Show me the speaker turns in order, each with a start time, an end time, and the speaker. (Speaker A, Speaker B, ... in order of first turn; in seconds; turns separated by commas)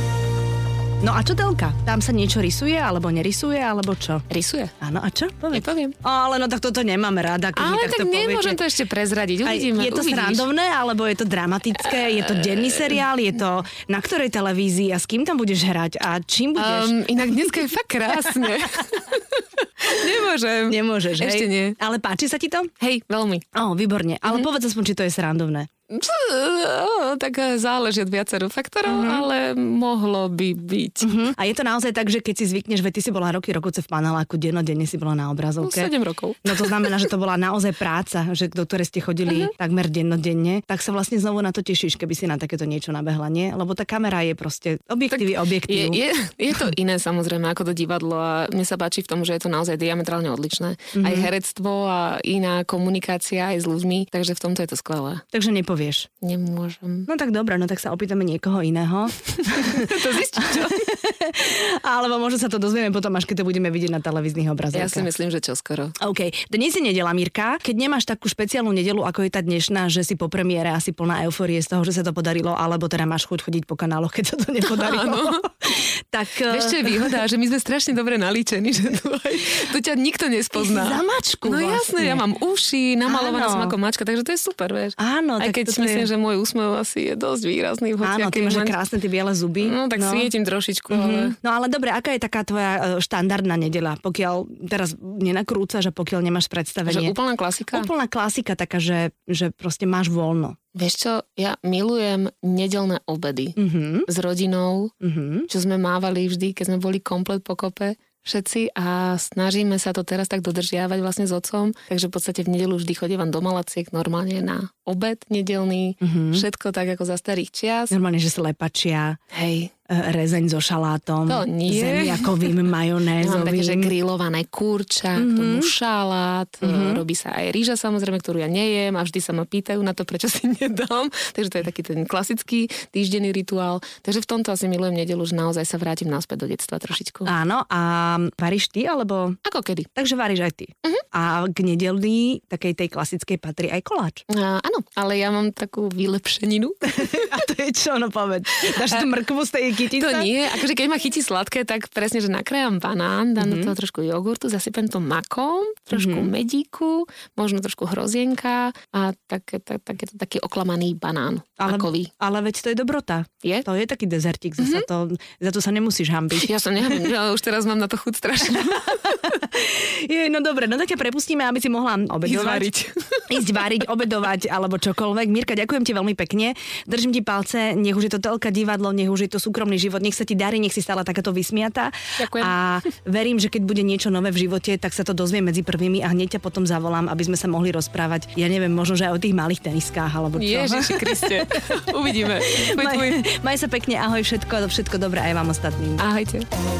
Speaker A: 1.0-4.2, Speaker B: 4.3-4.7, Speaker A: 4.8-8.6, Speaker B: 5.5-6.0, Speaker B: 7.5-10.5, Speaker A: 9.4-17.6, Speaker B: 12.0-13.0, Speaker B: 16.6-21.8, Speaker A: 20.7-22.7, Speaker B: 22.8-23.4, Speaker A: 23.5-25.7, Speaker B: 25.9-31.1, Speaker A: 28.9-29.2, Speaker A: 31.0-35.9, Speaker B: 35.6-37.1, Speaker A: 36.4-46.0, Speaker B: 39.3-39.5, Speaker B: 45.1-55.2, Speaker A: 50.9-51.3, Speaker A: 55.3-56.1, Speaker B: 56.2-57.1, Speaker A: 57.1-65.1, Speaker B: 59.4-60.9, Speaker B: 64.7-66.0, Speaker A: 66.0-77.2, Speaker B: 74.6-75.7, Speaker B: 76.5-88.8, Speaker A: 80.5-82.2, Speaker A: 83.1-83.8, Speaker A: 85.0-86.1, Speaker A: 88.0-90.3, Speaker B: 89.6-91.4, Speaker A: 90.9-97.2, Speaker B: 96.9-97.9, Speaker A: 97.7-100.6, Speaker B: 100.8-103.6, Speaker A: 103.6-104.1, Speaker B: 104.1-104.9, Speaker A: 105.0-105.5, Speaker B: 105.5-117.9, Speaker A: 116.0-116.4, Speaker A: 117.9-119.2, Speaker B: 119.3-119.7, Speaker A: 119.9-123.9, Speaker B: 121.3-122.5, Speaker B: 123.2-137.3, Speaker A: 125.2-125.7, Speaker A: 126.6-127.0, Speaker A: 137.3-139.4, Speaker B: 139.4-139.9, Speaker A: 139.9-144.2, Speaker B: 144.3-147.2, Speaker A: 146.8-150.3, Speaker B: 148.7-149.1, Speaker B: 149.9-162.1, Speaker A: 153.4-153.7, Speaker A: 155.9-156.3, Speaker A: 161.6-167.1, Speaker B: 164.6-164.9, Speaker B: 166.3-169.2, Speaker A: 168.7-172.7, Speaker B: 172.2-173.3, Speaker A: 173.3-196.0, Speaker B: 182.2-182.6, Speaker B: 190.3-193.2, Speaker B: 196.0-196.5